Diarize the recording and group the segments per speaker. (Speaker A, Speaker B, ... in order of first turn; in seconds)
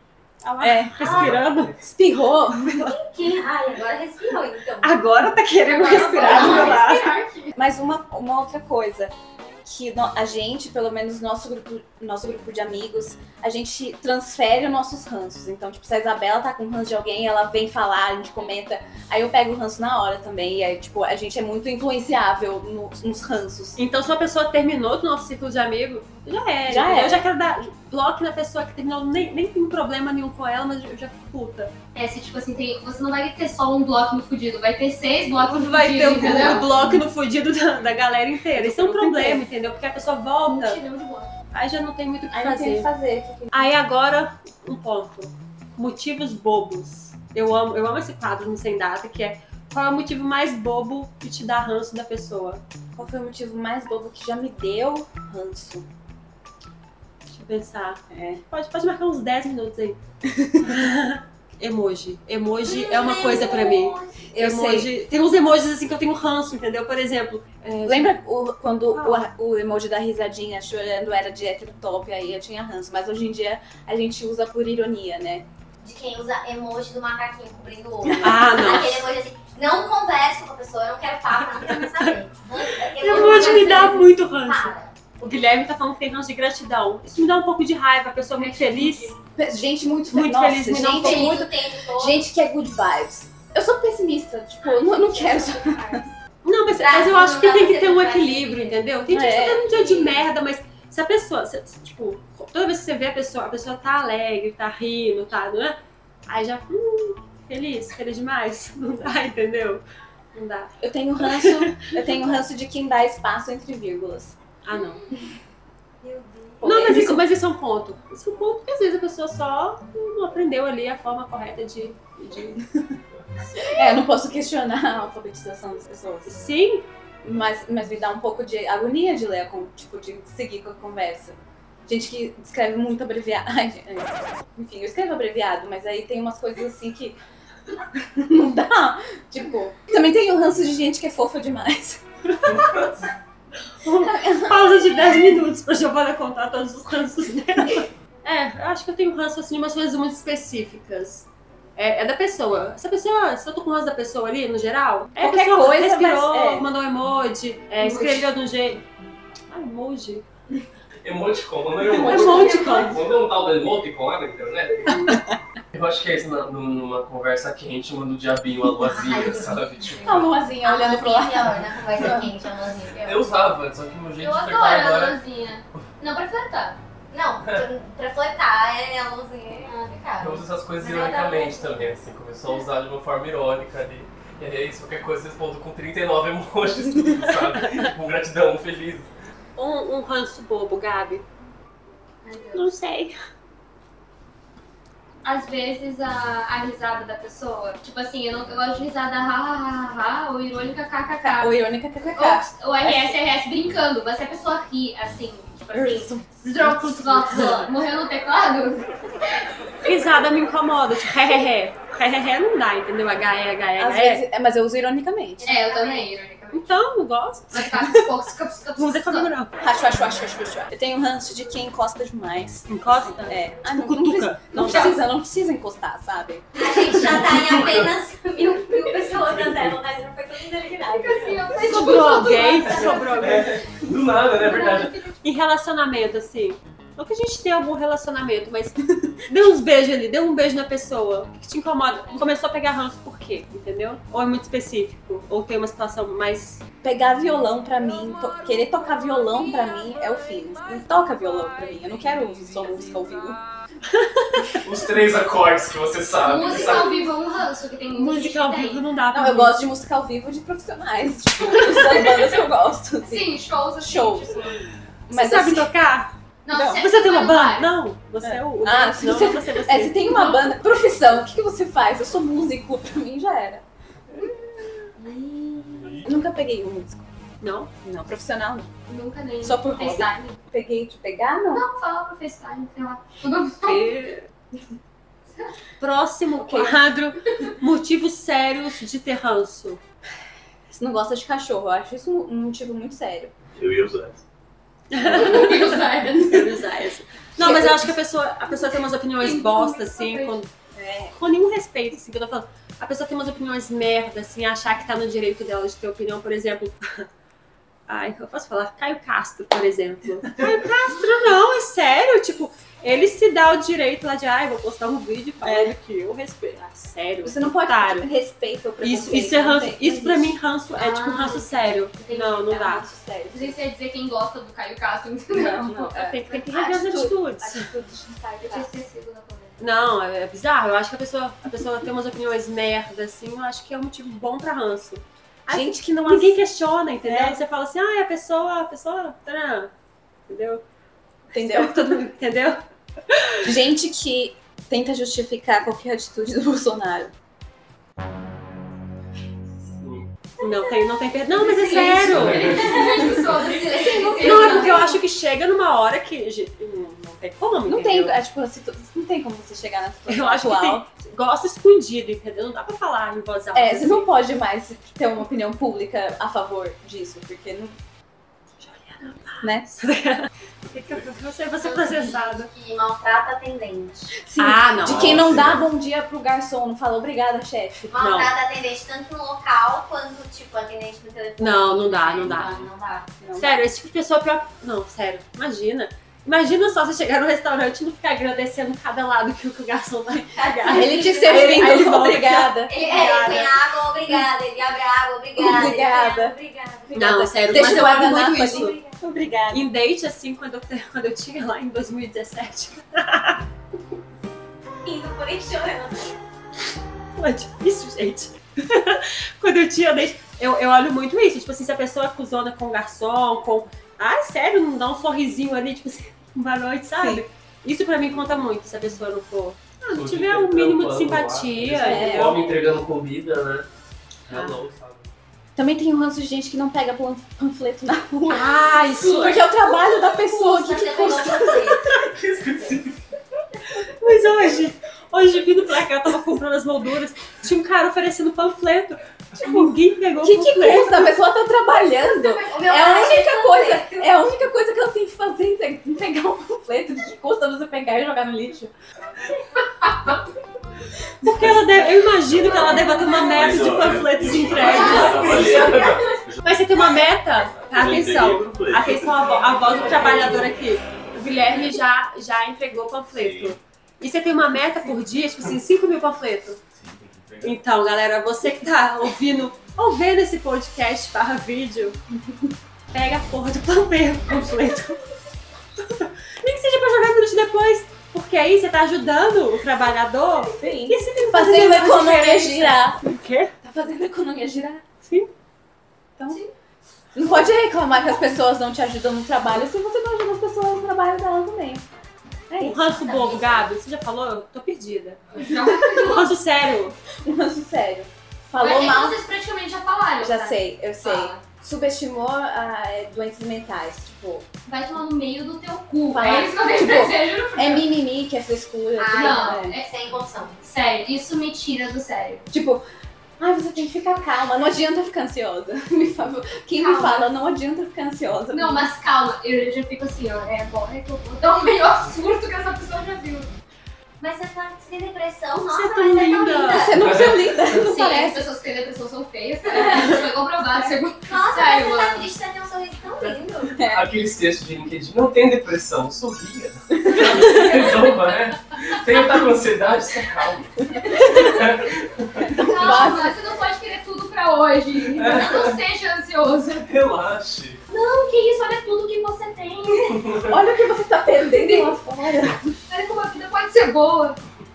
Speaker A: 0.4-1.8, 4.8-7.1, 23.8-31.7, 35.4-40.8, 41.5-42.9, 43.5-52.6, 57.3-60.0, 60.6-68.1, 68.9-69.3, 78.2-79.1, 81.4-82.2, 83.0-89.1, 90.1-91.4, 96.4-109.8, 110.3-110.7, 111.2-111.9, 114.6-115.0, 116.6-122.6, 126.2-126.9, 142.5-142.8, 143.8-158.8, 159.5-160.2, 161.9-162.9, 164.9-165.2, 187.4-187.8, 189.6-191.2, 192.5-193.1, 207.3-207.7, 209.8-214.2, 216.5-217.7, 218.8-219.5, 222.7-224.9, 231.6-233.5, 235.2-246.6, 254.0-254.6, 257.9-259.6, 265.1-266.1, 266.8-270.2, 277.4-277.7, 283.7-284.3, 285.8-289.8, 294.9-300.5, 301.1-307.1, 307.9-318.1, 318.8-322.9, 325.7-327.7, 329.6-339.7, 340.3-340.6, 341.4-342.6, 343.1-343.4, 350.4-352.7, 354.2-358.2, 360.1-364.1, 368.6-372.5, 374.4-375.2, 377.9-378.3, 381.4-382.7, 383.4-393.5, 396.9-398.8, 399.5-403.4, 407.1-422.5, 424.3-424.6, 428.3-429.4, 433.9-441.1, 451.2-455.4, 456.4-466.6, 467.4-472.0, 472.9-475.0, 475.9-483.5, 485.0-485.3, 492.6-495.2, 495.9-496.9, 525.7-527.0
Speaker B: 0.6-1.3, 1.8-3.0, 6.2-6.7, 7.5-23.8, 26.6-27.2, 36.2-36.6, 38.5-39.4, 42.3-43.7, 53.0-55.9, 58.1-58.4, 60.2-60.8, 64.3-64.9, 67.8-75.4, 78.0-78.9, 83.1-83.6, 89.2-96.1, 99.1-100.2, 110.8-114.3, 116.6-117.2, 123.6-126.4, 127.2-137.2, 137.9-142.0, 144.0-145.2, 155.1-156.7, 161.9-162.9, 170.0-172.3, 201.2-203.2, 205.7-207.5, 213.8-215.5, 219.6-227.0, 246.8-253.4, 259.1-264.4, 265.1-265.7, 266.5-266.8, 268.2-273.6, 275.9-277.1, 277.8-278.7, 279.4-281.6, 283.8-284.1, 286.4-286.9, 290.7-293.3, 295.1-295.4, 297.4-297.9, 300.7-301.1, 315.4-315.8, 317.2-320.3, 322.6-323.6, 325.3-328.8, 335.4-336.4, 337.0-337.4, 341.3-342.0, 343.4-347.1, 357.7-360.9, 363.5-367.8, 369.4-369.9, 374.2-377.9, 383.2-383.6, 390.6-392.8, 395.4-396.3, 396.9-399.6, 416.9-417.2, 421.8-422.6, 425.6-431.8, 439.4-448.7, 472.2-472.5, 480.4-483.0, 483.6-484.8, 487.1-491.8, 492.5-492.9, 497.2-499.2, 500.2-504.4, 506.1-509.8, 512.5-512.8, 513.4-518.9, 526.7-528.5, 533.7-534.1, 537.0-537.8, 542.4-543.3, 550.4-552.8
Speaker C: 1.0-1.9, 142.5-142.9, 161.0-165.0, 165.7-170.3, 173.0-175.2, 180.2-189.1, 227.0-227.9, 229.4-229.7, 232.7-235.0, 254.6-257.0, 349.8-350.1, 352.0-353.2, 419.9-423.7, 424.2-425.1, 431.9-433.0, 455.4-456.1, 526.9-527.8, 533.2-542.6, 545.1-545.8, 546.8-547.8, 550.2-550.5
Speaker D: 2.8-4.9, 5.8-6.7, 62.6-64.3, 75.8-84.9, 90.7-92.2, 94.7-95.8, 96.8-98.8, 114.8-115.2, 116.0-116.6, 168.9-169.7, 170.6-173.2, 177.1-181.8, 215.4-216.2, 226.6-231.6, 353.8-354.5, 371.6-374.1, 377.9-383.1, 390.4-391.9, 392.7-398.9, 404.8-406.2, 429.8-431.9, 442.3-444.4, 493.0-493.6, 509.0-510.6, 516.7-517.3, 524.2-526.9, 531.2-533.8
Speaker E: 5.7-7.5, 31.9-37.0, 40.5-41.3, 94.8-95.9, 157.8-158.3, 162.0-163.2, 174.2-176.8, 192.2-192.8, 195.2-201.5, 202.1-208.9, 215.4-216.8, 217.5-219.3, 228.5-228.9, 230.8-233.7, 234.3-235.1, 256.2-258.8, 261.5-262.5, 263.0-264.7, 266.4-267.7, 270.1-270.6, 275.0-275.8, 278.9-280.4, 281.5-284.0, 295.1-296.4, 298.7-300.4, 320.8-322.6, 323.3-325.7, 328.4-329.6, 351.3-355.0, 442.1-443.1, 449.8-450.1, 454.7-456.2, 495.3-496.4, 498.6-501.4, 504.7-507.9, 509.1-509.9, 510.6-512.5, 518.5-523.5, 527.7-532.3, 542.6-546.9, 547.9-550.4, 551.4-552.0, 552.9-554.4
Speaker F: 293.5-294.2, 374.8-375.6, 452.4-456.4, 457.6-460.5, 463.1-463.6, 466.8-467.6